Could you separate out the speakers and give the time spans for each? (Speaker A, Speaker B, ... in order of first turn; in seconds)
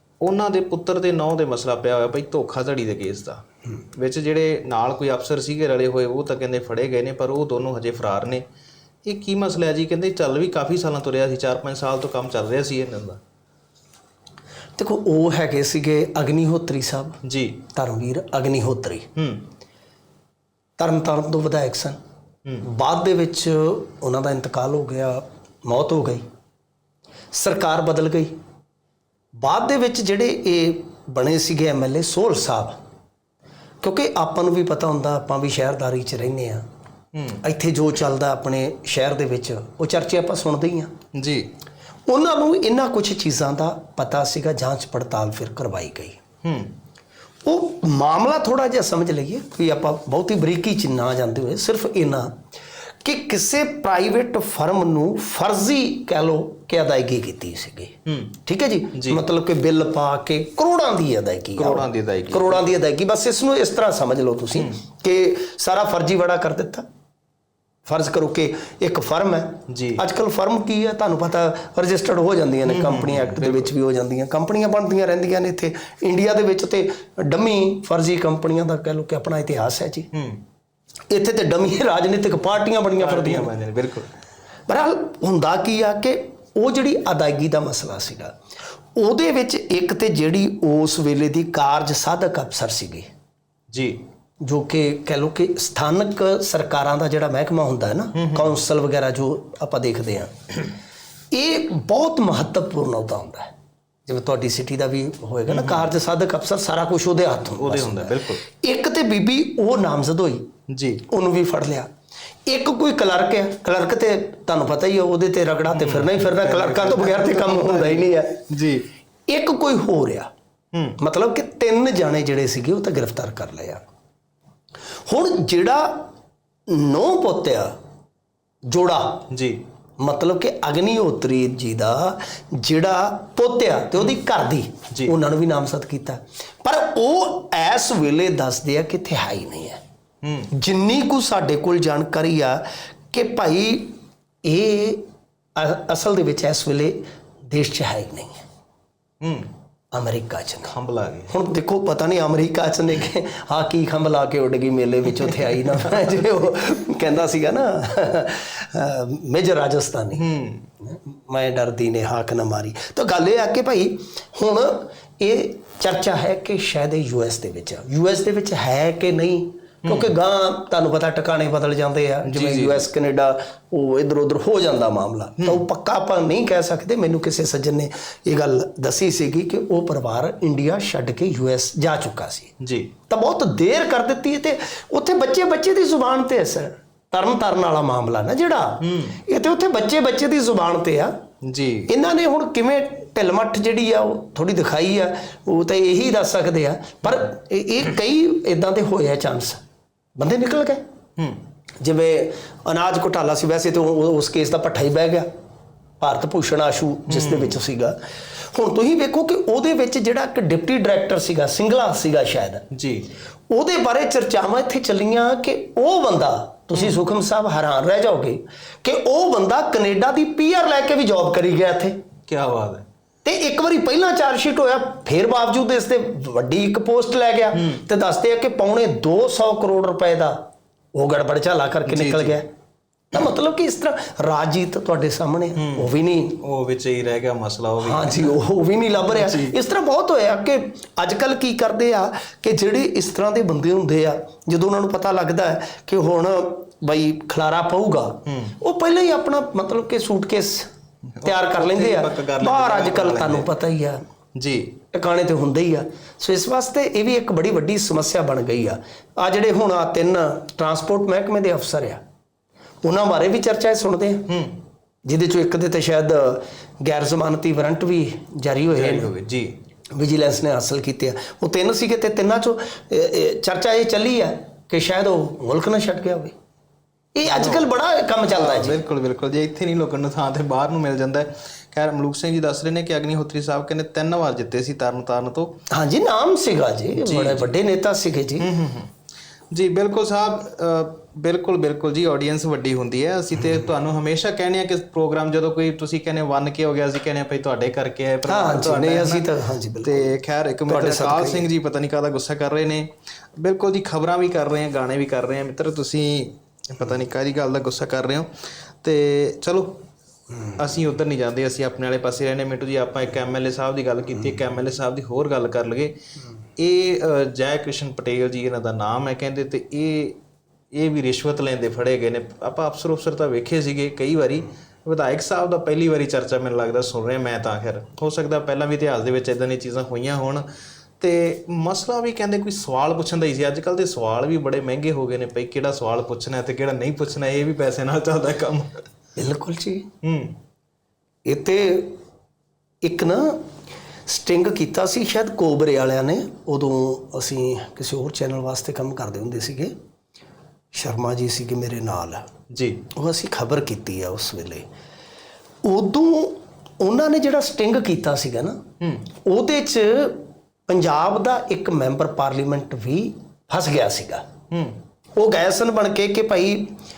Speaker A: 0.2-8.4, 9.0-13.2, 17.2-17.6, 19.1-19.5, 37.1-37.4, 41.1-41.5, 46.4-46.7, 58.0-58.3, 58.9-59.2, 61.5-62.7, 69.7-70.0, 72.7-73.7, 80.1-80.4, 83.0-84.1, 93.7-94.0, 98.1-98.6, 105.5-105.9, 107.5-108.4, 110.7-111.0, 115.7-118.9, 120.7-121.0, 129.3-129.6, 140.2-140.5, 149.2-149.5, 150.7-151.3, 160.1-160.7, 169.8-170.1, 172.2-172.8, 182.6-182.9, 188.8-189.2, 191.4-191.9, 207.1-207.6, 212.7-213.1, 222.3-222.8, 227.5-227.8, 231.8-232.4, 235.6-238.4, 239.0-239.5, 248.2-248.6, 251.1-253.5, 254.3-254.8, 264.3-264.6, 268.7-269.6, 277.2-277.7, 278.2-285.6, 286.9-287.5, 288.4-288.9, 289.5-299.2, 299.8-308.3, 308.8-309.8, 310.5-315.9, 316.6-320.2, 320.7-330.4, 331.0-338.8, 340.0-340.4, 352.5-352.8, 358.8-359.1, 364.5-364.8
Speaker B: 14.8-17.2, 17.7-19.1, 20.8-22.0, 22.6-26.2, 27.3-28.3, 29.3-32.8, 33.8-36.6, 37.4-40.9, 42.1-46.2, 47.4-52.4, 53.0-57.9, 58.5-66.8, 67.8-80.1, 81.1-83.5, 84.7-88.3, 89.0-93.1, 94.4-100.7, 101.3-103.5, 104.0-110.5, 111.1-111.9, 112.5-118.4, 119.3-120.3, 121.0-123.8, 125.1-126.1, 126.7-127.7, 128.7-129.2, 130.0-139.8, 140.5-145.0, 145.6-148.4, 149.9-150.7, 151.3-160.2, 160.8-182.5, 183.1-191.1, 191.9-199.6, 200.2-200.8, 201.8-205.3, 206.0-212.7, 213.5-222.0, 223.2-230.4, 230.9-232.5, 233.1-236.4, 237.8-250.7, 251.2-254.0, 254.9-262.0, 262.8-264.3, 265.0-269.1, 269.9-276.3, 277.1-278.8, 285.7-288.5, 298.3-300.2, 300.7-301.5, 339.1-339.9, 341.2-342.0, 342.8-343.4, 344.1-349.7, 350.7-352.3, 352.9-354.7, 355.6-358.6, 359.2-364.2, 365.2-366.7